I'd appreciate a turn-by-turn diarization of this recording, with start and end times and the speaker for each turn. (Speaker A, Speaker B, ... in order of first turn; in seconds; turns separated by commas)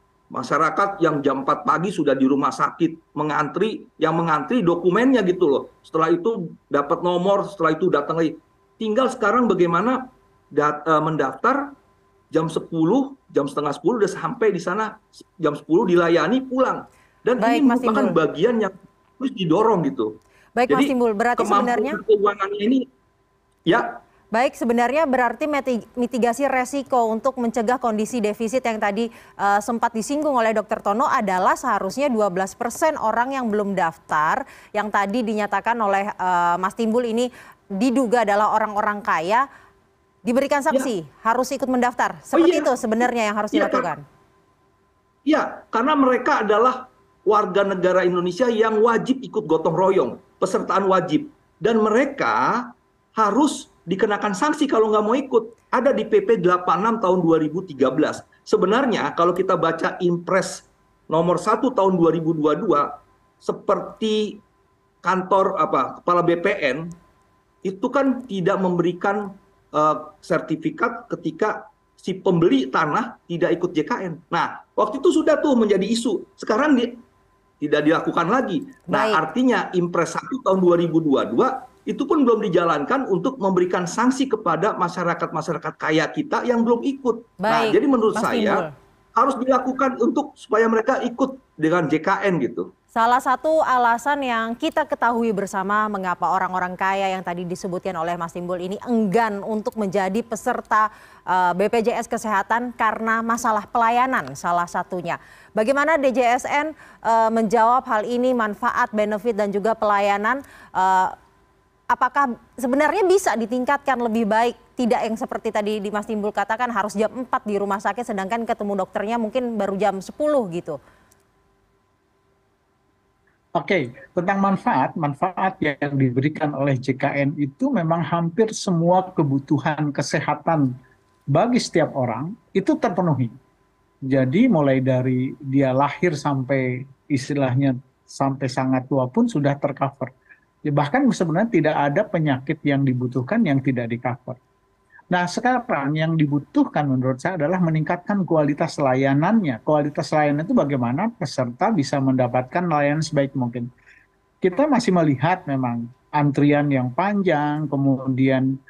Speaker A: 0.3-11.8, Speaker A: 12.3-20.2, Speaker B: 17.4-18.1, Speaker B: 20.6-22.0, Speaker A: 20.7-22.9, Speaker A: 23.6-24.0, Speaker B: 24.3-39.4, Speaker B: 40.2-44.0, Speaker A: 42.3-43.9, Speaker A: 45.2-64.4, Speaker A: 65.0-66.9, Speaker A: 67.6-77.0, Speaker A: 77.6-88.6, Speaker B: 78.9-79.2, Speaker B: 87.4-88.7, Speaker A: 89.2-92.7, Speaker B: 92.9-111.1, Speaker B: 111.9-120.8, Speaker C: 123.6-130.7, Speaker C: 131.3-133.3, Speaker C: 134.1-140.1, Speaker C: 140.7-144.4, Speaker C: 145.1-153.7, Speaker C: 154.4-158.5